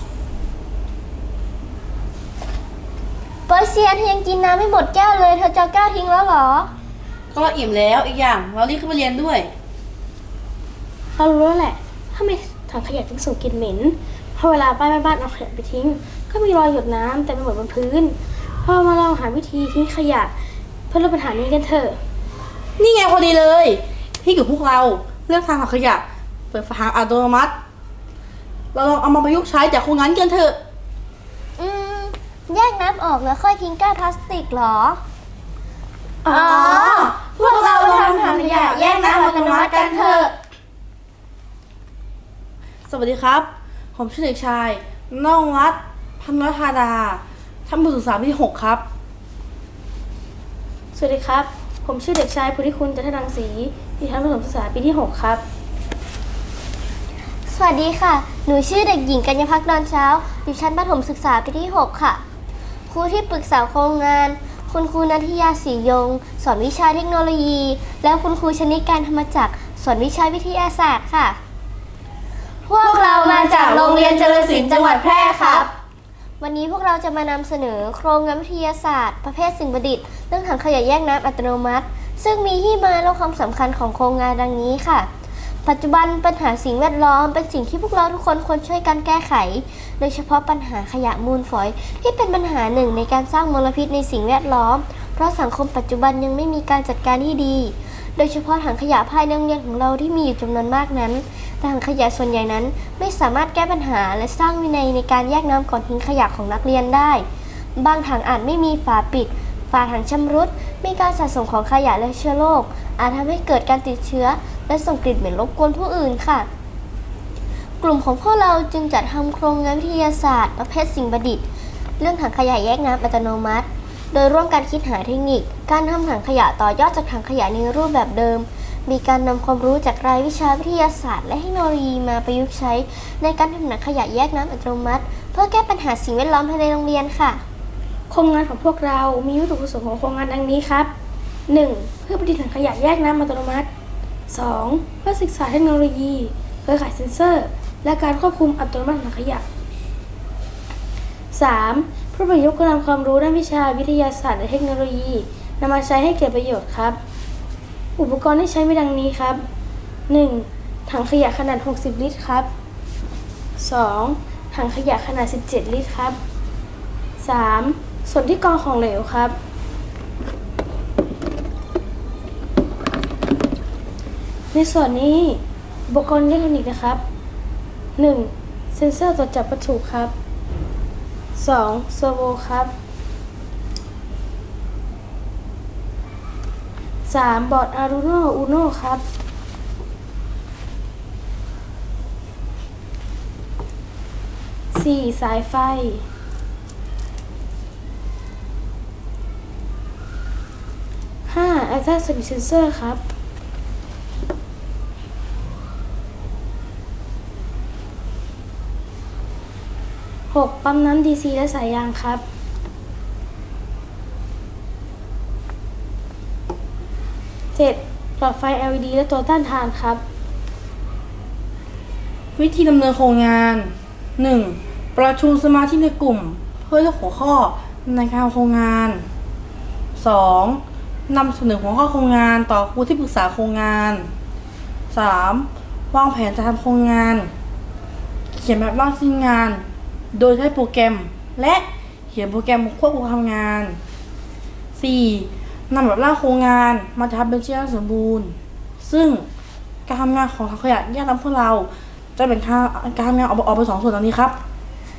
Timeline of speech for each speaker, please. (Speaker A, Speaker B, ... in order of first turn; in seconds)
Speaker A: 3.5-6.7, 31.6-35.0, 36.2-40.3, 57.5-62.2, 62.9-71.4, 72.7-75.7, 76.4-85.1, 85.7-107.2, 107.8-116.5, 117.8-121.4, 122.0-137.4
Speaker B: 7.3-9.5, 22.8-27.6, 28.7-30.6, 36.3-40.3, 42.9-48.8, 72.8-75.7, 222.4-229.0, 229.9-234.1, 234.9-237.3, 238.3-243.8, 244.7-249.3, 249.9-254.4
Speaker C: 11.2-20.3, 20.9-22.0, 36.2-38.7, 50.9-55.4, 138.1-140.9, 141.5-143.7, 144.3-149.4, 151.3-157.0, 158.0-159.4, 160.1-162.5, 163.6-166.2, 167.2-169.3, 174.5-177.0, 178.0-180.1, 181.3-182.7, 187.1-189.0, 194.7-196.0, 201.3-203.0, 210.3-212.2, 217.5-220.0